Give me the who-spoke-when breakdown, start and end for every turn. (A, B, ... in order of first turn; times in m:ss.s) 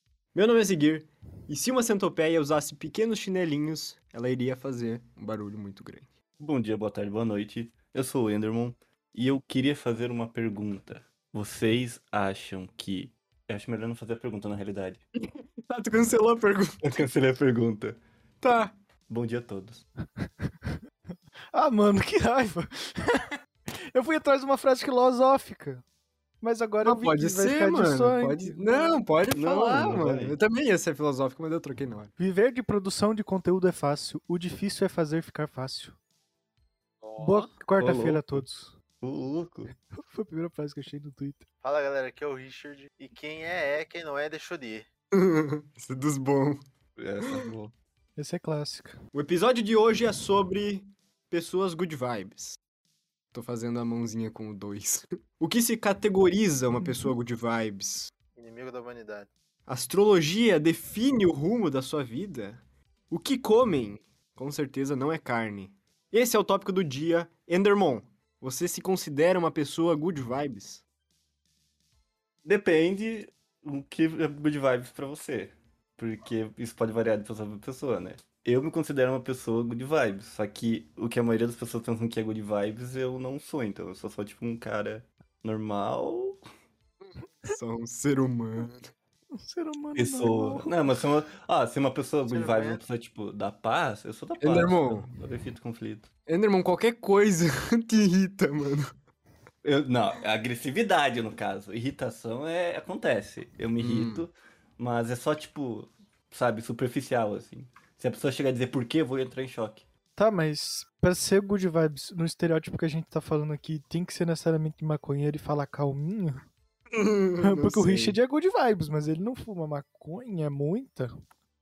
0:00.3-0:06.1 A
0:06.4-0:15.0 B
0:15.2-0:16.8 A
0:16.8-0:18.0 B
0:18.4-0:18.7 A
0:19.1-0:19.8 B
0:21.5-0:23.2 C
0:23.9-0:25.8 C
0:26.4-0:29.0 C
0:26.8-0:32.1 A
0:29.3-0:30.4 B
0:32.2-0:36.0 C
0:37.0-0:37.5 A
0:37.2-0:38.8 C
0:37.8-0:38.4 B
0:39.0-0:39.7 B
0:40.0-0:41.4 C
0:41.6-0:44.9 D
0:45.2-0:46.6 A
0:47.0-0:47.7 B
0:48.2-0:48.9 C
0:49.1-0:52.6 A
0:53.3-0:58.1 A
0:58.4-0:59.3 D
0:59.7-1:10.8 A
1:12.4-1:26.4 B
1:27.4-1:28.9 A
1:29.4-1:30.7 C
1:30.0-1:36.1 B
1:32.3-1:32.8 D
1:34.4-1:35.0 A
1:36.3-1:38.9 A
1:39.6-1:49.8 B
1:43.8-1:44.2 A
1:50.2-1:56.4 C
1:56.9-1:58.2 A
1:57.4-2:01.1 C